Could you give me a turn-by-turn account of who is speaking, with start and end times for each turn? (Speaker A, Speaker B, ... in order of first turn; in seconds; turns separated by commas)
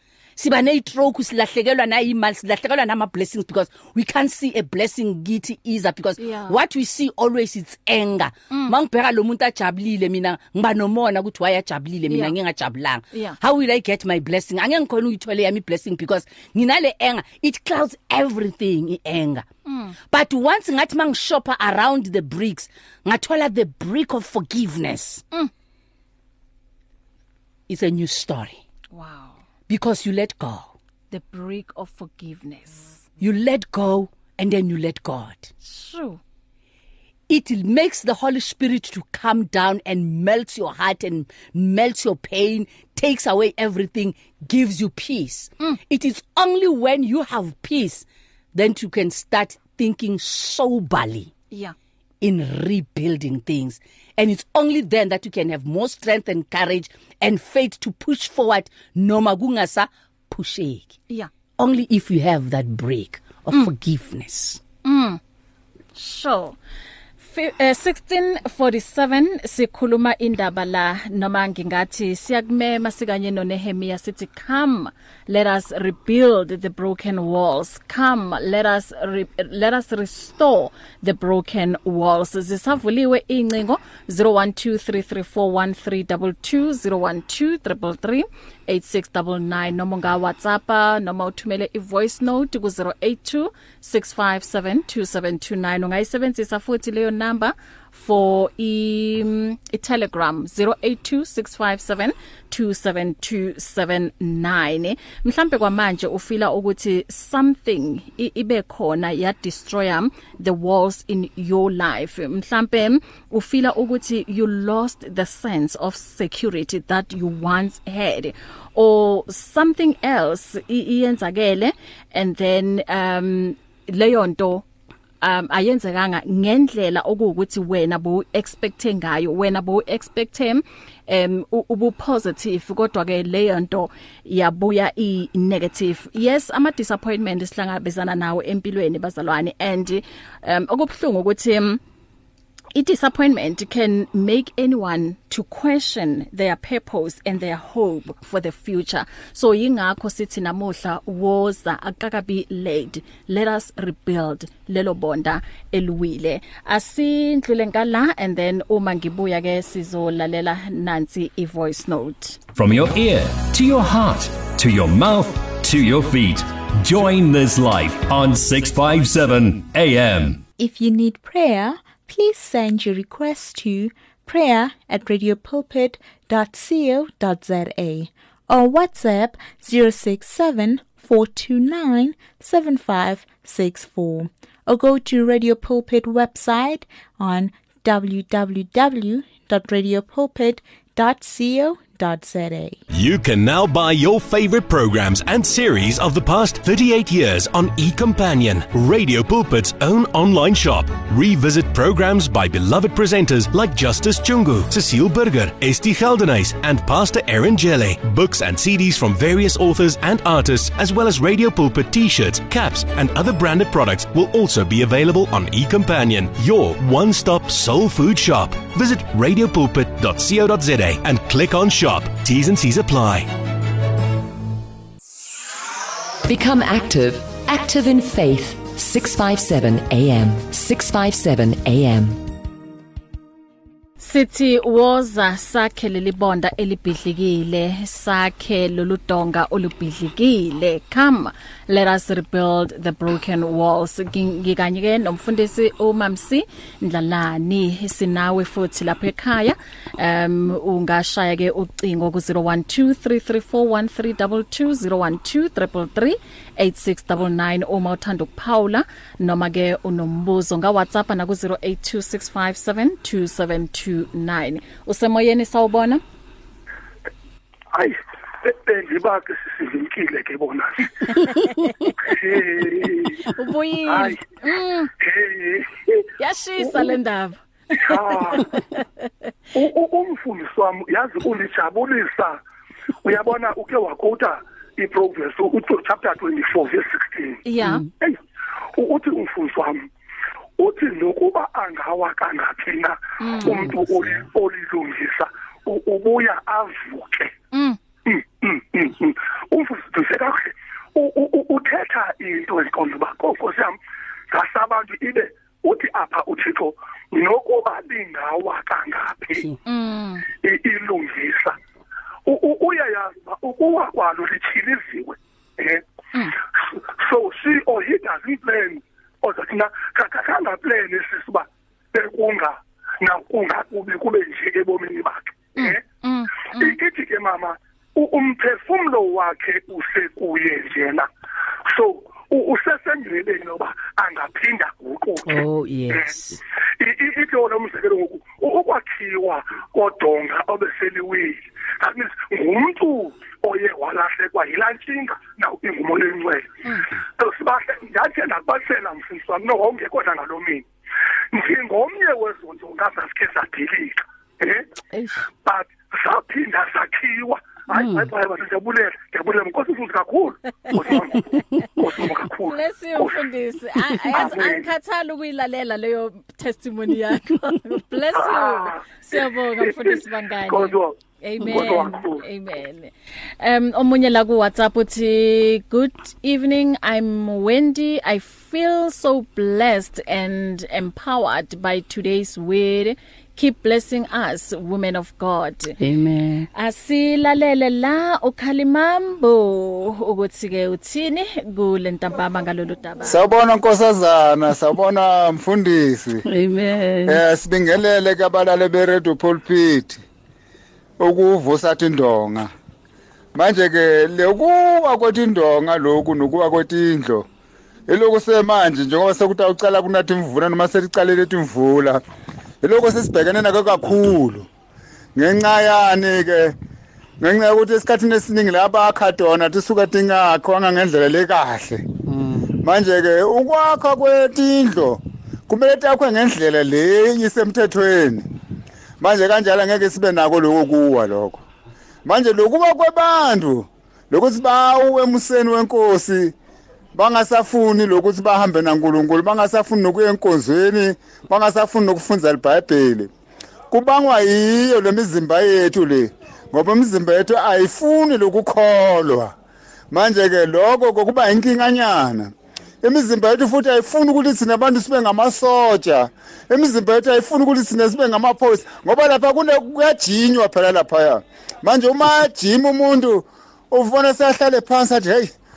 Speaker A: 0.4-19.4, Speaker B: 6.2-6.6, Speaker B: 19.7-20.0, Speaker A: 20.1-25.2, Speaker A: 27.7-28.6, Speaker B: 28.9-29.4, Speaker A: 29.7-30.7, Speaker B: 31.1-33.0, Speaker A: 33.2-35.5, Speaker B: 35.6-36.2, Speaker A: 37.3-51.3, Speaker A: 52.2-61.0, Speaker A: 61.6-64.6, Speaker B: 64.8-65.2, Speaker B: 66.0-66.6, Speaker B: 67.2-124.7, Speaker B: 125.2-141.8, Speaker B: 142.8-162.4, Speaker C: 162.6-170.4, Speaker D: 170.6-192.8, Speaker E: 192.9-223.3, Speaker F: 226.2-232.2, Speaker B: 234.0-266.0, Speaker G: 267.7-271.4, Speaker B: 271.1-271.8, Speaker G: 271.9-273.3, Speaker B: 273.3-274.9, Speaker G: 273.9-274.2, Speaker G: 275.0-276.0, Speaker B: 276.2-279.1, Speaker G: 276.6-276.9, Speaker G: 277.8-278.6, Speaker G: 279.6-282.4, Speaker G: 283.0-287.4, Speaker B: 287.4-287.8, Speaker G: 288.8-289.9, Speaker G: 290.6-297.3, Speaker B: 293.2-293.7, Speaker A: 293.6-294.2, Speaker B: 297.5-297.8, Speaker G: 298.1-303.8, Speaker G: 304.3-309.5, Speaker B: 309.6-310.3, Speaker G: 310.3-311.6, Speaker G: 312.3-315.8, Speaker G: 316.6-325.8, Speaker B: 325.6-326.8, Speaker G: 326.6-331.1, Speaker G: 331.7-336.1, Speaker A: 335.3-336.4, Speaker G: 336.8-346.6, Speaker G: 347.2-350.7, Speaker G: 351.3-354.7, Speaker A: 354.9-355.3, Speaker G: 355.4-363.2, Speaker A: 357.7-358.1, Speaker B: 362.4-385.8, Speaker G: 364.1-364.7, Speaker G: 368.2-372.2, Speaker A: 385.8-386.5, Speaker B: 386.6-393.2, Speaker H: 393.1-396.2, Speaker A: 396.3-397.2, Speaker H: 397.1-400.0, Speaker H: 401.0-402.5, Speaker H: 403.4-407.2, Speaker H: 407.9-412.0, Speaker H: 412.6-414.5, Speaker H: 415.2-416.6, Speaker H: 417.2-421.8, Speaker A: 422.1-422.5, Speaker H: 422.6-428.3, Speaker H: 429.0-431.4, Speaker H: 432.1-436.3, Speaker H: 437.0-443.1, Speaker H: 443.7-449.3, Speaker H: 449.9-465.3